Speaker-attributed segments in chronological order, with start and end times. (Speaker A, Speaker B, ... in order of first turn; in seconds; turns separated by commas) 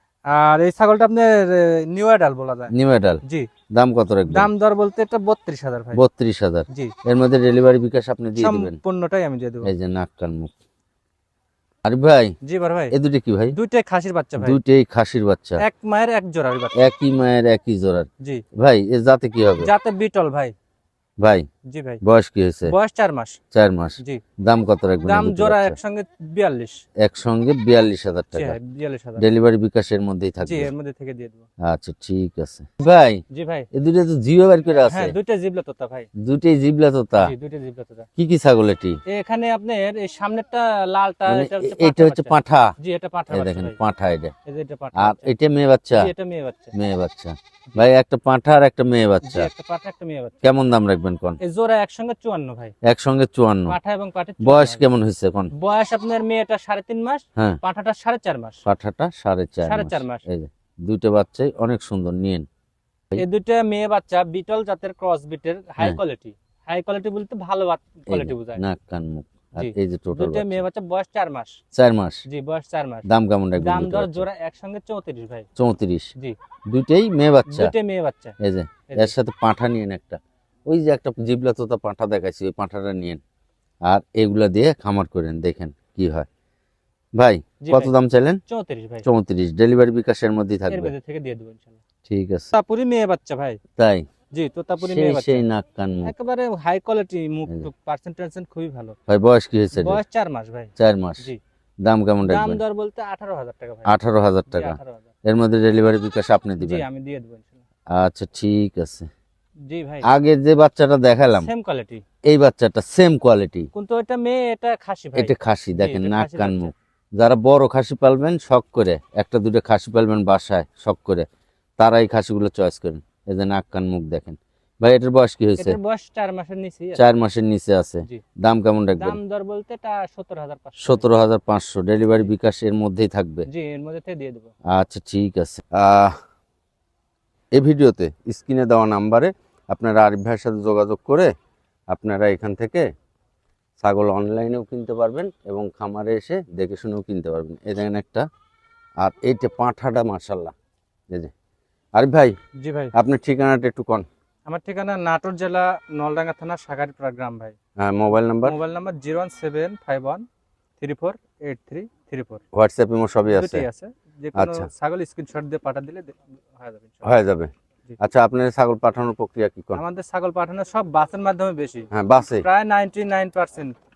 Speaker A: 0.3-2.7, Speaker B: 2.7-3.2, Speaker A: 3.2-3.5, Speaker B: 3.7-4.5, Speaker A: 4.3-6.0, Speaker B: 5.9-8.8, Speaker A: 8.4-9.7, Speaker B: 9.6-10.5, Speaker B: 11.8-12.3, Speaker A: 12.4-12.9, Speaker B: 12.9-13.5, Speaker A: 13.5-14.6, Speaker B: 14.4-15.6, Speaker A: 15.6-16.9, Speaker B: 16.7-19.7, Speaker A: 19.6-20.5, Speaker B: 21.2-21.4, Speaker A: 21.7-22.0, Speaker B: 22.0-22.7, Speaker A: 22.7-23.4, Speaker B: 23.5-25.8, Speaker A: 25.1-26.8, Speaker B: 27.0-28.6, Speaker A: 28.3-29.2, Speaker B: 29.2-30.7, Speaker A: 30.4-31.4, Speaker B: 31.6-33.2, Speaker A: 33.3-33.7, Speaker B: 33.7-35.1, Speaker A: 34.9-36.1, Speaker B: 36.2-37.3, Speaker A: 37.2-38.1, Speaker B: 38.2-39.0, Speaker A: 39.1-43.8, Speaker B: 41.3-42.7, Speaker B: 43.3-44.3, Speaker A: 44.5-45.3, Speaker B: 45.0-46.1, Speaker A: 46.0-46.7, Speaker B: 46.7-49.5, Speaker A: 49.2-50.4, Speaker B: 50.4-51.4, Speaker A: 51.4-52.7, Speaker B: 52.8-53.8, Speaker A: 53.7-54.9, Speaker B: 54.4-55.5, Speaker A: 55.5-58.6, Speaker B: 58.6-62.4, Speaker A: 59.6-60.2, Speaker A: 63.2-68.6, Speaker B: 68.1-70.6, Speaker A: 69.6-71.6, Speaker B: 71.7-72.2, Speaker A: 72.3-73.1, Speaker B: 73.0-74.3, Speaker A: 73.6-75.5, Speaker B: 75.6-76.1, Speaker B: 76.7-77.7, Speaker A: 77.5-78.3, Speaker B: 78.4-83.2, Speaker A: 78.9-79.1, Speaker B: 83.8-86.3, Speaker B: 87.2-88.4, Speaker A: 87.6-87.9, Speaker A: 88.5-89.0, Speaker B: 89.0-90.9, Speaker A: 90.7-91.8, Speaker B: 92.1-92.5, Speaker A: 92.5-93.6, Speaker B: 93.8-94.0, Speaker A: 94.3-95.4, Speaker B: 94.8-96.1, Speaker A: 96.0-99.0, Speaker B: 99.1-100.0, Speaker A: 99.8-101.4, Speaker B: 100.8-101.3, Speaker B: 101.8-102.6, Speaker A: 102.3-104.0, Speaker B: 103.8-106.8, Speaker A: 104.5-105.1, Speaker A: 106.6-107.6, Speaker B: 107.9-109.1, Speaker A: 109.7-110.0, Speaker B: 110.1-111.5, Speaker A: 111.3-112.0, Speaker B: 112.3-113.7, Speaker A: 113.7-116.7, Speaker B: 115.1-121.2, Speaker B: 121.8-125.8, Speaker A: 125.6-127.1, Speaker B: 127.0-129.2, Speaker A: 129.0-131.1, Speaker B: 130.8-133.4, Speaker A: 133.5-134.5, Speaker B: 134.7-136.1, Speaker B: 137.5-141.3, Speaker B: 141.9-142.8, Speaker B: 143.8-148.2, Speaker B: 149.0-150.5, Speaker B: 151.9-152.3, Speaker A: 152.6-152.9, Speaker B: 152.9-154.1, Speaker A: 154.5-157.6, Speaker B: 157.8-158.6, Speaker A: 158.4-160.2, Speaker A: 160.8-162.4, Speaker B: 162.5-163.7, Speaker A: 163.3-167.1, Speaker B: 164.3-164.7, Speaker B: 167.0-169.8, Speaker A: 169.7-173.7, Speaker B: 171.9-172.4